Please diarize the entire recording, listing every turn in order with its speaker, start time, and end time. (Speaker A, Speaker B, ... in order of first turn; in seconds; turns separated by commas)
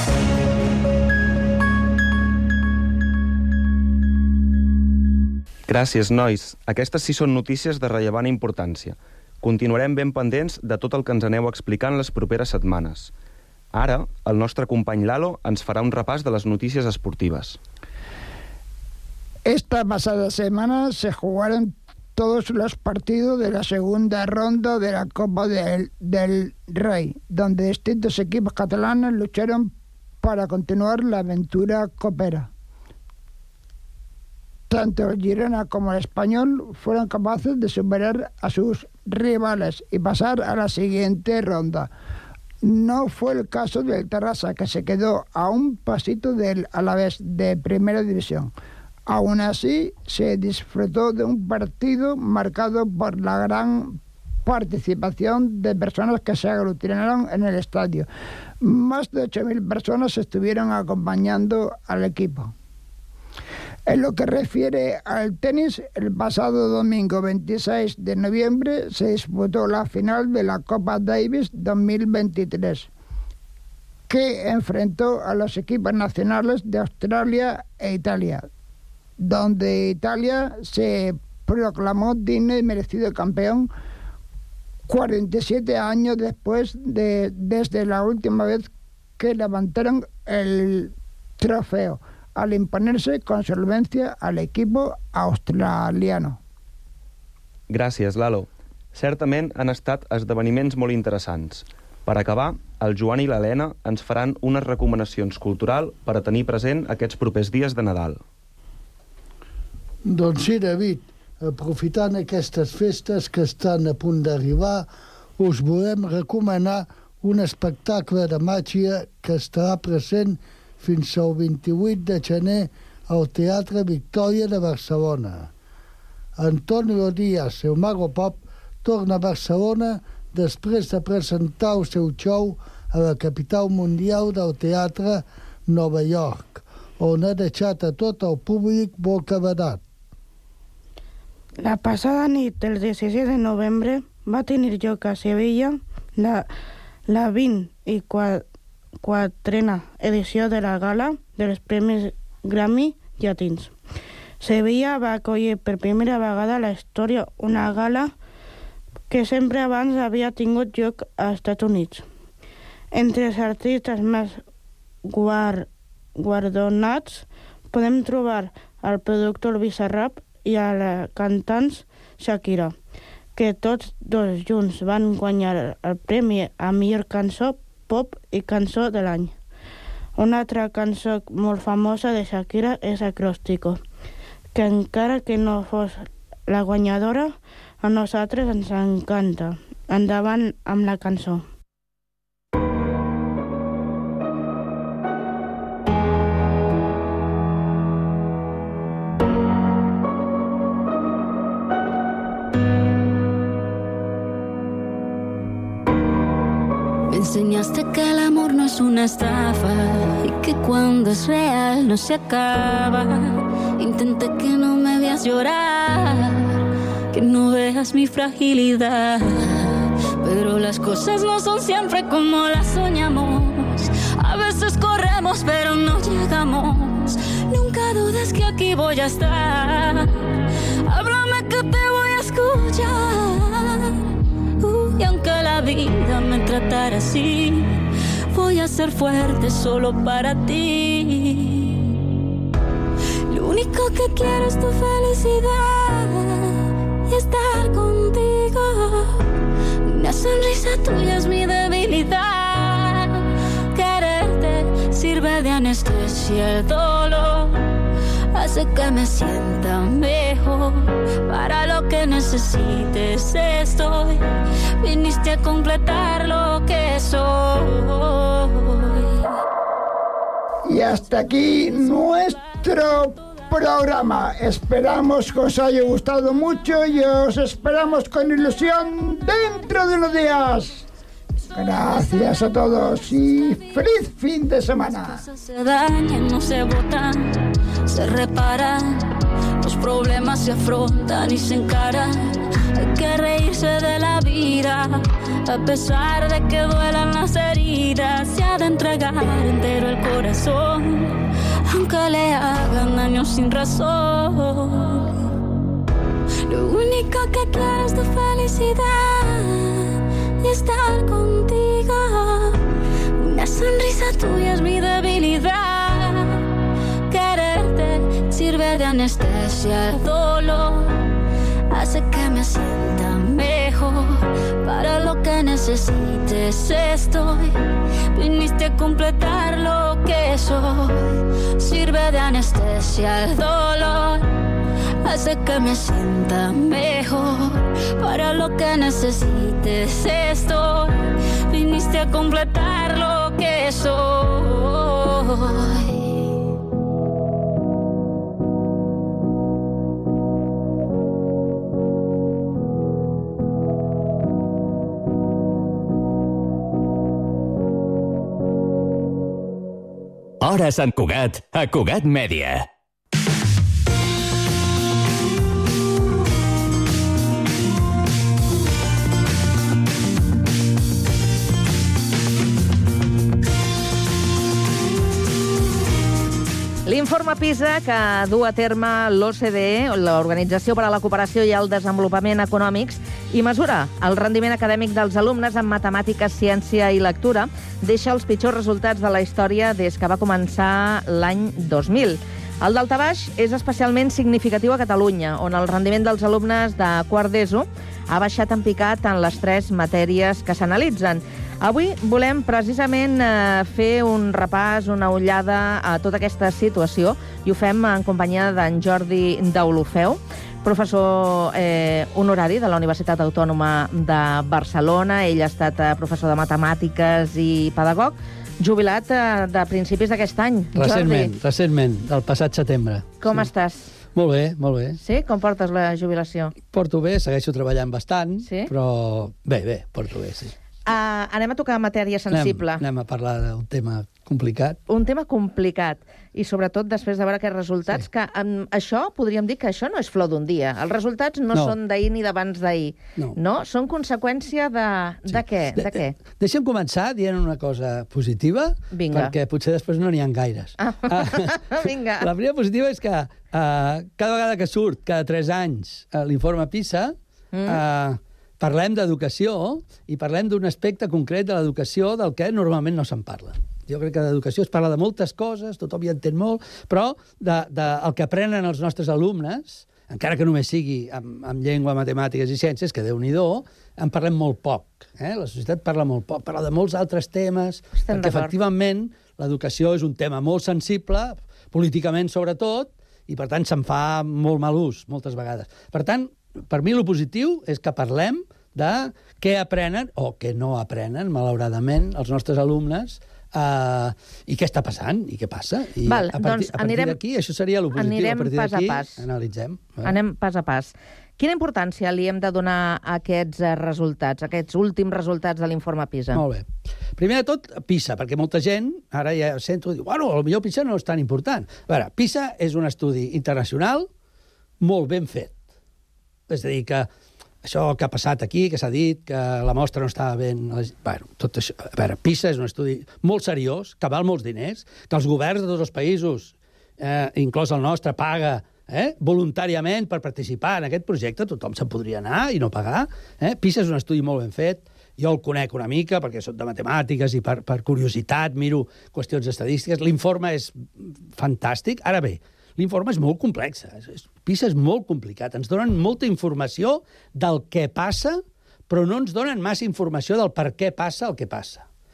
Speaker A: 5.7-13.1, Speaker A: 13.7-17.6, Speaker B: 19.5-32.5, Speaker B: 34.7-41.9, Speaker B: 42.6-48.5, Speaker B: 49.1-58.1, Speaker B: 58.6-62.5, Speaker B: 63.9-72.9, Speaker B: 74.1-78.5, Speaker B: 79.2-83.7, Speaker B: 84.9-96.4, Speaker A: 97.7-108.2, Speaker C: 110.1-114.9, Speaker C: 115.4-125.5, Speaker C: 126.4-139.8, Speaker D: 141.6-146.5, Speaker D: 147.1-148.4, Speaker D: 149.0-153.8, Speaker D: 154.4-158.1, Speaker D: 159.1-162.1, Speaker D: 162.9-164.4, Speaker D: 165.1-172.8, Speaker D: 173.4-179.4, Speaker D: 180.2-183.8, Speaker D: 184.5-191.5, Speaker E: 207.1-216.6, Speaker E: 217.1-242.0, Speaker E: 243.3-249.3, Speaker E: 249.9-257.6, Speaker E: 258.3-264.2, Speaker E: 264.8-269.3, Speaker B: 270.7-280.9, Speaker B: 281.5-285.2, Speaker E: 285.3-305.3, Speaker E: 306.4-312.6, Speaker E: 313.2-316.6, Speaker E: 317.1-321.1, Speaker E: 321.7-327.6, Speaker E: 328.1-334.3, Speaker E: 335.0-346.3, Speaker F: 360.4-362.6, Speaker G: 376.9-421.3, Speaker H: 420.8-423.5, Speaker G: 423.2-423.9, Speaker H: 424.1-425.0, Speaker G: 425.0-426.5, Speaker H: 426.7-430.5, Speaker G: 428.4-428.7, Speaker G: 430.9-432.8, Speaker H: 432.3-434.8, Speaker G: 434.9-446.1, Speaker H: 445.3-457.1, Speaker G: 448.9-449.3, Speaker G: 450.9-452.3, Speaker G: 457.5-457.8, Speaker H: 457.7-500.2, Speaker G: 478.0-478.5, Speaker G: 496.1-497.2, Speaker G: 497.9-499.2, Speaker G: 500.0-506.4, Speaker H: 506.3-506.7, Speaker H: 507.2-514.1, Speaker H: 514.8-515.6, Speaker H: 516.5-517.1, Speaker H: 517.6-551.9